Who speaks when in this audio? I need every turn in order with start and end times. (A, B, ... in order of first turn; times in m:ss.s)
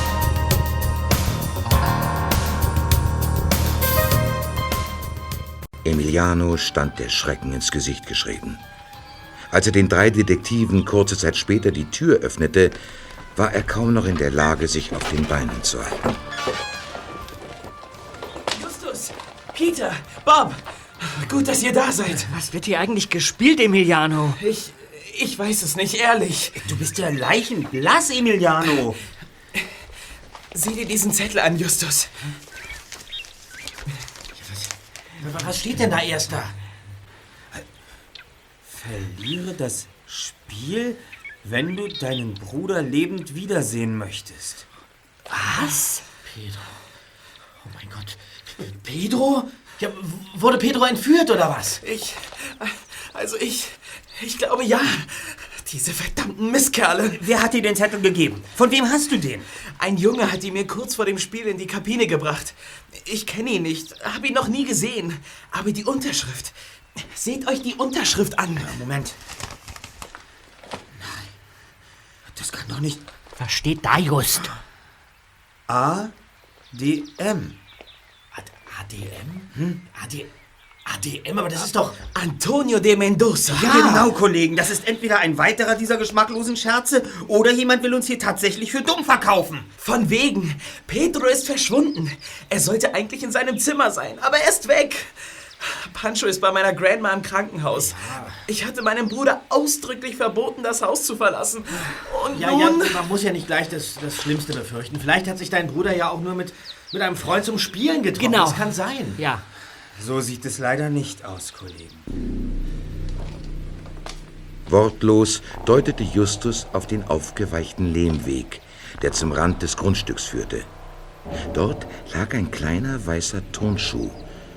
0:05.8-0:08.6 A
0:09.5-0:12.8 A
0:13.4-0:16.2 A
0:18.5-0:22.3 B
0:22.2-0:24.4 C
0:24.4-0:26.6 B
0:26.6-0:29.0 D
0:30.5-0:32.1 B
0:34.4-0:36.6 E
0:38.7-0:44.6 D
0:45.3-0:46.0 C
0:46.2-0:46.8 E
0:47.6-0:51.8 E
0:51.8-0:57.2 B
0:57.2-0:59.5 D
0:59.8-1:08.7 B
1:08.6-1:09.2 D
1:12.3-1:13.0 D
1:13.4-1:14.6 C
1:15.7-1:16.1 D
1:16.7-1:17.6 D
1:18.3-1:20.3 E
1:19.6-1:19.8 D
1:20.9-1:22.0 E
1:22.1-1:24.1 B
1:23.5-1:29.7 D
1:29.8-1:43.0 B
1:37.8-1:38.4 E
1:42.3-1:49.2 E
1:48.2-1:49.4 C
1:50.0-1:52.1 D
1:54.7-2:00.7 A
2:01.5-2:04.2 A